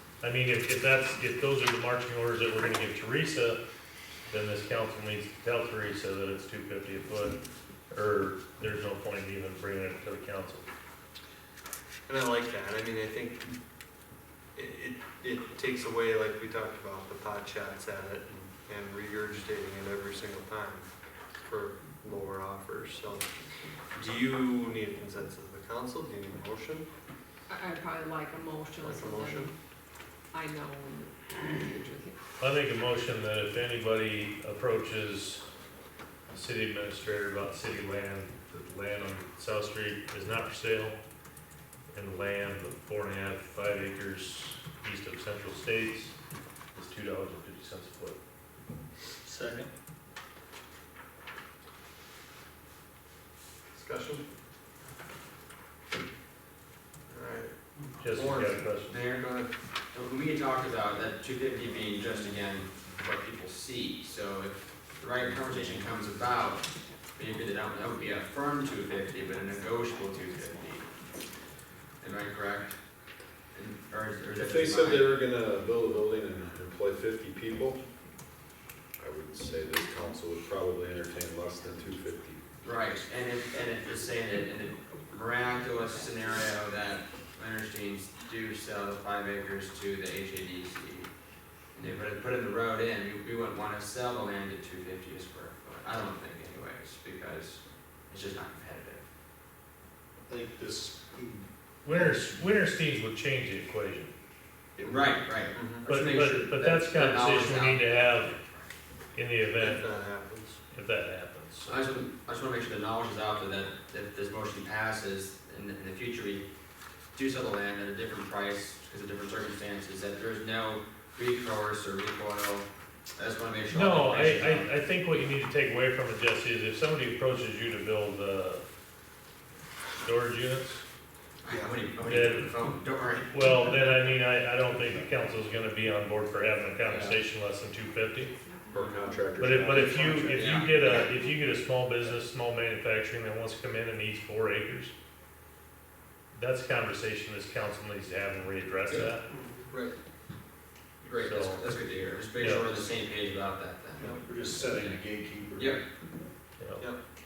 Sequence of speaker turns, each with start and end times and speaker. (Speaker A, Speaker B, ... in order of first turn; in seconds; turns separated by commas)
Speaker A: 0.2-3.6, Speaker A: 4.3-7.3, Speaker A: 7.9-10.7, Speaker B: 12.1-13.5, Speaker B: 14.5-20.9, Speaker B: 21.4-23.2, Speaker B: 23.9-26.9, Speaker C: 27.5-29.5, Speaker B: 28.8-29.5, Speaker C: 30.3-32.1, Speaker A: 32.4-35.4, Speaker A: 36.3-41.0, Speaker A: 41.9-46.1, Speaker A: 46.7-48.2, Speaker D: 49.2-49.7, Speaker B: 53.7-54.2, Speaker B: 57.1-59.5, Speaker A: 58.0-59.0, Speaker E: 58.9-59.3, Speaker E: 59.9-70.9, Speaker E: 72.0-72.7, Speaker E: 73.5-75.2, Speaker F: 74.4-77.8, Speaker F: 79.0-82.4, Speaker E: 82.6-91.1, Speaker E: 91.7-99.0, Speaker D: 100.3-102.4, Speaker A: 101.8-104.1, Speaker B: 104.8-105.8, Speaker E: 104.8-108.7, Speaker A: 105.8-108.3, Speaker A: 109.1-109.8, Speaker B: 109.6-110.6, Speaker A: 110.7-111.8, Speaker E: 111.7-116.5, Speaker E: 117.1-124.7, Speaker A: 123.7-128.6, Speaker A: 130.0-130.8, Speaker E: 131.4-133.4, Speaker A: 132.0-132.6, Speaker A: 133.3-138.3, Speaker E: 136.8-137.2, Speaker C: 138.4-139.0, Speaker F: 138.7-140.5, Speaker A: 139.4-144.9, Speaker E: 140.3-141.1, Speaker A: 146.3-149.2, Speaker B: 149.3-149.9, Speaker E: 151.0-155.0, Speaker A: 151.1-151.7, Speaker A: 152.3-152.9, Speaker B: 154.0-154.2, Speaker D: 154.0-155.8, Speaker E: 155.6-155.8, Speaker A: 156.6-156.8